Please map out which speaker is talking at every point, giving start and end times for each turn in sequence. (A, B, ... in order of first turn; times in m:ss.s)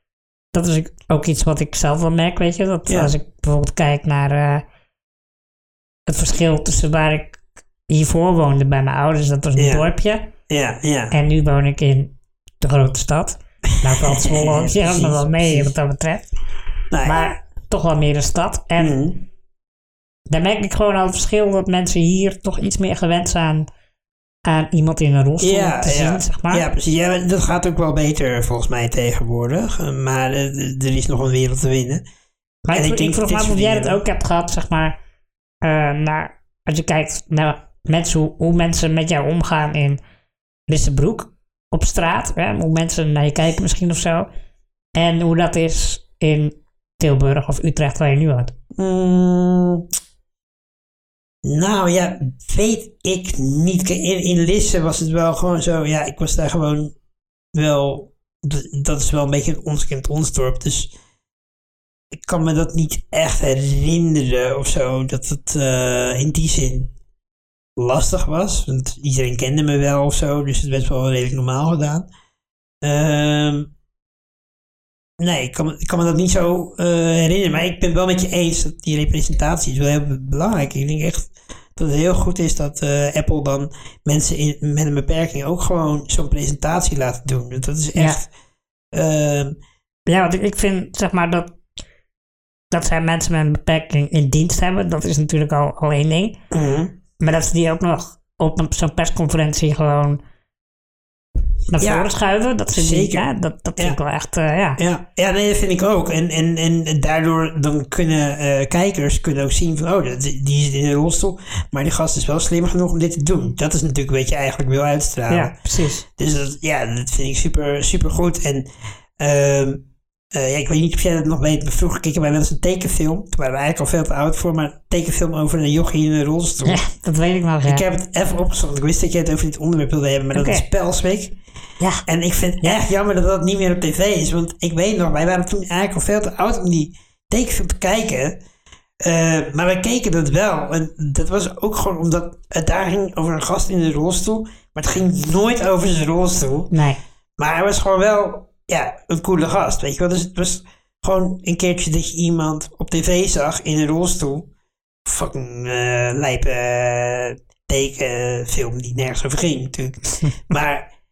0:00.5-0:04.6 A
0:02.9-0:03.1 B
0:06.1-0:10.3 A
0:09.6-0:09.8 B
0:10.5-0:11.1 B
0:11.1-0:16.3 A
0:13.8-0:15.7 B
0:16.9-0:17.3 B
0:17.0-0:19.0 A
0:18.8-0:19.2 B
0:20.3-0:23.7 A
0:24.4-0:26.6 A
0:25.4-0:32.0 B
0:32.6-0:35.0 A
0:32.7-0:34.0 B
0:35.6-0:40.0 A
0:40.7-0:44.3 A
0:44.9-0:48.5 A
0:48.7-0:49.8 B
0:51.4-0:56.9 B
0:57.5-1:00.9 B
1:02.1-1:06.9 B
1:07.8-1:12.1 B
1:12.8-1:13.7 B
1:15.2-1:28.3 B
1:28.9-1:29.6 B
1:30.1-1:31.5 A
1:32.7-1:36.4 A
1:36.5-1:36.9 B
1:37.2-1:40.2 A
1:41.7-1:44.8 A
1:41.8-1:42.1 B
1:42.7-1:44.0 B
1:44.8-1:58.7 B
1:55.3-1:56.0 A
1:59.2-2:06.8 B
2:06.6-2:07.8 A
2:07.6-2:11.4 B
2:10.3-2:10.6 A
2:12.1-2:18.4 B
2:19.0-2:26.7 B
2:26.7-2:27.0 A
2:27.4-2:34.5 B
2:35.0-2:40.9 B